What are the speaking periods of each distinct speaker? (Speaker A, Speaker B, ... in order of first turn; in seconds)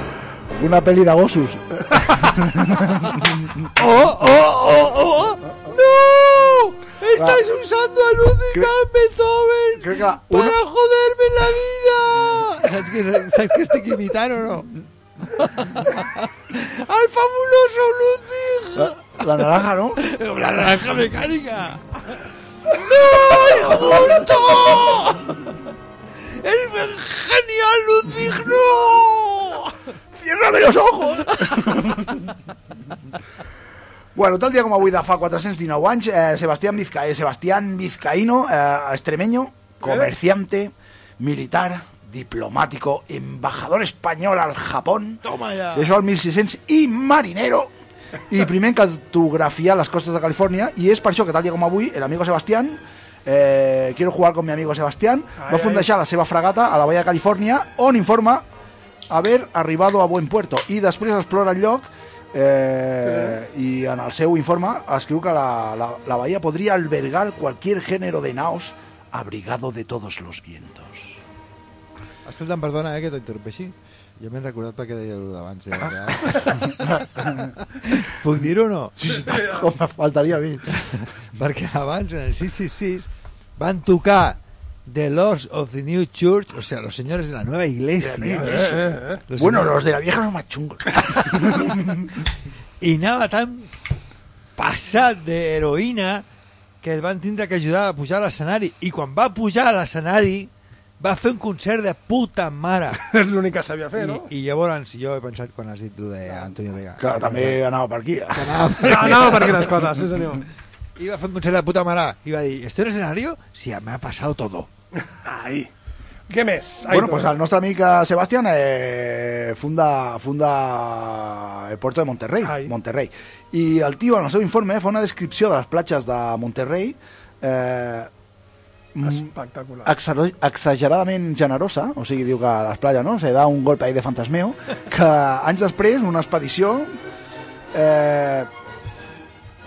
Speaker A: 0.5-3.7, 7.2-7.4, 9.8-10.6, 18.8-20.0, 23.3-24.2, 30.2-32.3, 34.1-45.2, 45.7-47.7, 48.3-58.5, 59.1-71.2, 75.9-77.5, 79.0-80.8, 88.0-92.1, 107.0-109.2, 116.9-128.1, 128.9-129.3, 129.8-136.9, 137.7-138.5
Speaker B: 3.8-14.7, 15.3-22.0, 22.7-25.5, 26.4-29.7, 45.2-45.9, 72.2-79.0, 80.8-89.8, 91.2-91.7, 92.8-93.7, 94.6-96.2, 96.8-103.0, 104.0-107.6, 108.3-109.8, 111.0-114.7
Speaker C: 55.4-55.9, 63.0-63.4, 79.2-79.7, 88.4-89.2, 103.0-104.3, 108.8-110.4, 115.1-115.7, 116.3-117.3, 122.4-122.7, 129.1-129.9